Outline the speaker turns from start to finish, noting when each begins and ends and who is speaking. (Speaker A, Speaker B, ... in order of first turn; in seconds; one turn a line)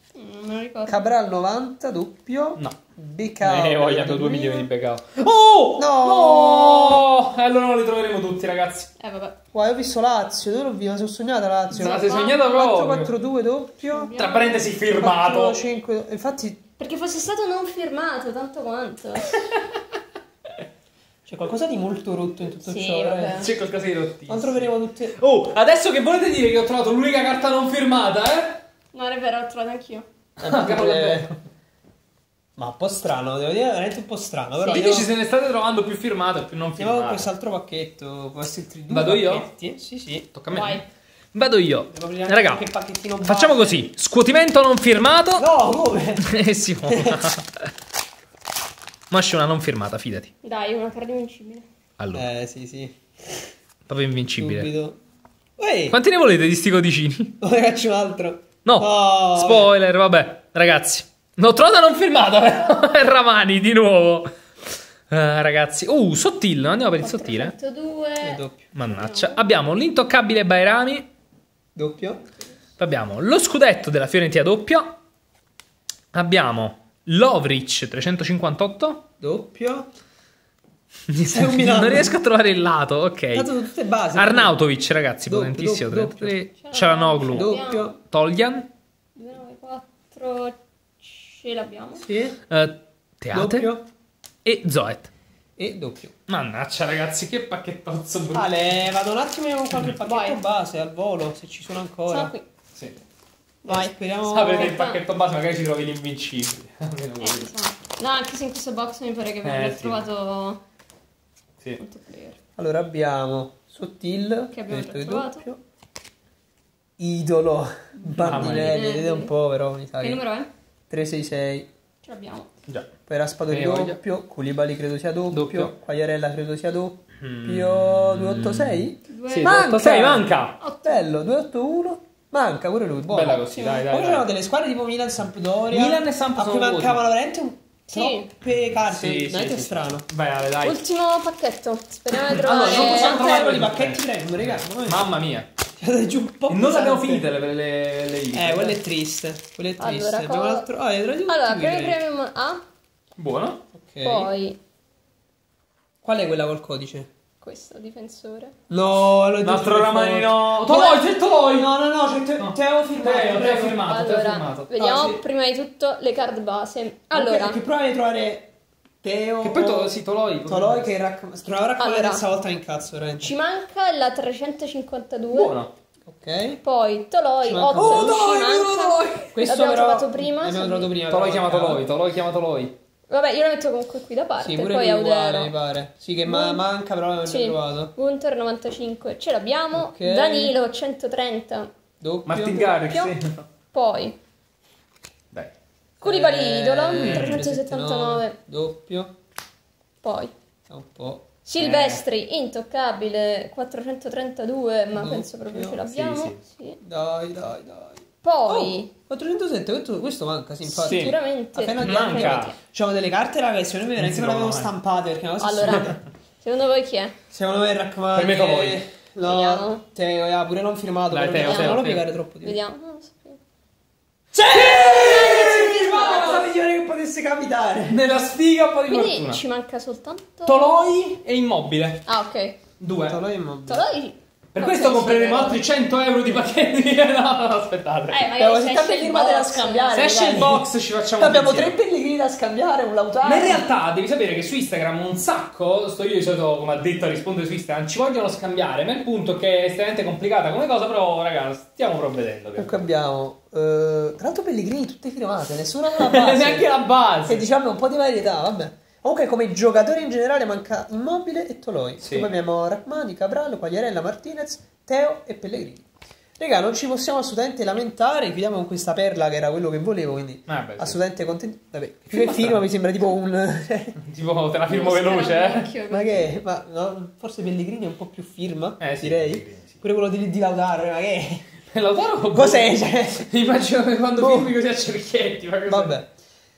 Speaker A: 0.1-1.1
Speaker B: 0.9-4.7
Speaker C: 3.4-8.9
Speaker B: 5.8-7.0
Speaker A: 9.0-9.4
Speaker B: 9.5-14.1
Speaker C: 11.7-13.1
Speaker A: 11.8-12.5
Speaker A: 13.9-14.8
Speaker C: 14.1-15.6
Speaker B: 14.9-16.6
Speaker A: 16.8-19.4
Speaker B: 21.2-23.5
Speaker A: 22.6-23.5
Speaker C: 23.3-28.6
Speaker B: 24.3-25.2
Speaker A: 28.9-30.0
Speaker C: 30.4-31.2
Speaker B: 30.4-31.4
Speaker B: 32.6-35.1
Speaker A: 34.6-35.0
Speaker C: 34.7-37.3
Speaker B: 36.8-40.3
Speaker C: 38.9-39.5
Speaker C: 40.3-42.7
Speaker A: 40.5-40.8
Speaker B: 41.9-43.8
Speaker C: 43.2-45.5
Speaker B: 45.4-46.2
Speaker C: 46.2-47.7
Speaker B: 46.9-47.2
Speaker C: 49.1-50.3
Speaker A: 50.4-51.6
Speaker C: 52.0-52.3
Speaker B: 52.1-53.5
Speaker C: 53.9-54.7
Speaker B: 54.4-55.0
Speaker B: 55.6-56.0
Speaker C: 55.9-57.4
Speaker B: 57.4-59.7
Speaker C: 58.6-64.3
Speaker C: 65.1-67.5
Speaker A: 67.0-69.4
Speaker B: 68.2-68.8
Speaker C: 68.7-71.1
Speaker B: 71.8-72.2
Speaker C: 72.8-74.9
Speaker C: 76.1-79.0
Speaker B: 79.2-79.9
Speaker C: 81.1-83.6
Speaker B: 81.3-82.2
Speaker B: 83.3-84.6
Speaker C: 84.1-88.7
Speaker B: 85.2-86.4
Speaker A: 86.5-88.0
Speaker B: 87.3-87.9
Speaker A: 89.1-92.0
Speaker B: 92.0-92.4
Speaker C: 92.5-93.7
Speaker B: 93.3-93.8
Speaker C: 94.4-95.1
Speaker B: 95.6-96.1
Speaker C: 96.3-98.5
Speaker B: 98.3-102.3
Speaker A: 100.0-100.4
Speaker A: 102.1-102.4
Speaker B: 103.6-104.8
Speaker A: 103.6-105.0
Speaker C: 104.2-107.5
Speaker A: 107.2-110.6
Speaker C: 109.4-110.0
Speaker A: 111.8-112.4
Speaker B: 112.6-115.6
Speaker A: 114.5-115.5
Speaker B: 117.0-120.2
Speaker A: 118.0-119.3
Speaker C: 118.2-118.8
Speaker A: 120.0-120.5
Speaker B: 120.9-121.7
Speaker A: 122.0-122.5
Speaker B: 123.1-130.3
Speaker C: 123.5-124.0
Speaker C: 125.3-125.7
Speaker C: 127.2-130.6
Speaker A: 129.1-129.8
Speaker A: 130.6-131.1
Speaker B: 130.8-140.1
Speaker C: 133.1-134.3
Speaker A: 133.5-133.8
Speaker C: 135.7-137.0
Speaker A: 137.9-138.3
Speaker C: 138.6-140.8
Speaker A: 140.6-143.5
Speaker C: 142.2-145.5
Speaker B: 142.3-145.0
Speaker B: 145.8-147.3
Speaker C: 146.5-148.8
Speaker B: 148.3-152.0
Speaker A: 149.8-150.7
Speaker A: 151.3-152.6
Speaker C: 153.2-153.6
Speaker B: 153.8-154.3
Speaker A: 154.0-154.6
Speaker B: 156.0-157.1
Speaker A: 157.4-158.5
Speaker B: 158.7-163.8
Speaker C: 159.4-161.7
Speaker C: 162.4-164.7
Speaker A: 163.8-167.6
Speaker B: 164.8-165.2
Speaker B: 167.1-168.5
Speaker B: 169.0-173.3
Speaker C: 169.4-170.9
Speaker A: 171.8-172.2
Speaker A: 173.2-175.6
Speaker C: 175.3-175.7
Speaker B: 176.1-176.6
Speaker A: 176.6-180.9
Speaker B: 177.4-178.2
Speaker C: 177.7-179.3
Speaker B: 179.3-181.8
Speaker C: 181.1-182.7
Speaker A: 183.1-185.5
Speaker B: 184.4-187.9
Speaker A: 186.2-186.6
Speaker A: 187.2-191.7
Speaker B: 189.7-190.5
Speaker B: 192.0-192.8
Speaker C: 192.2-193.4
Speaker A: 192.8-193.2
Speaker A: 193.7-194.2
Speaker A: 196.0-198.4
Speaker B: 196.0-199.1
Speaker C: 196.9-197.4
Speaker A: 200.0-200.3
Speaker B: 200.7-201.3
Speaker A: 201.4-206.8
Speaker C: 201.6-202.0
Speaker B: 204.9-216.0
Speaker C: 205.9-206.3
Speaker A: 208.2-208.9
Speaker A: 210.7-212.5
Speaker C: 210.8-211.2
Speaker C: 211.7-212.5
Speaker C: 213.9-214.7
Speaker A: 215.4-217.2
Speaker B: 217.3-222.6
Speaker C: 218.1-218.8
Speaker A: 219.2-219.8
Speaker C: 221.1-222.1
Speaker A: 221.4-221.8
Speaker A: 222.4-223.4
Speaker B: 224.3-228.0
Speaker C: 224.4-226.5
Speaker A: 224.8-226.2
Speaker C: 227.9-229.4
Speaker A: 228.8-230.8
Speaker C: 230.4-232.0
Speaker A: 232.1-232.6
Speaker C: 232.8-233.2
Speaker B: 233.1-233.8
Speaker A: 233.7-235.6
Speaker C: 234.5-238.3
Speaker A: 238.1-240.0
Speaker B: 238.3-243.7
Speaker C: 239.9-241.8
Speaker C: 243.2-252.8
Speaker B: 252.6-256.7
Speaker C: 255.9-257.4
Speaker B: 257.2-265.9
Speaker C: 262.0-262.3
Speaker B: 266.4-273.9
Speaker C: 270.5-271.0
Speaker C: 272.1-272.6
Speaker C: 274.0-275.7
Speaker A: 274.7-276.4
Speaker B: 275.9-281.5
Speaker C: 278.8-279.8
Speaker C: 281.6-285.9
Speaker B: 282.3-283.3
Speaker B: 284.2-284.6
Speaker B: 285.6-286.1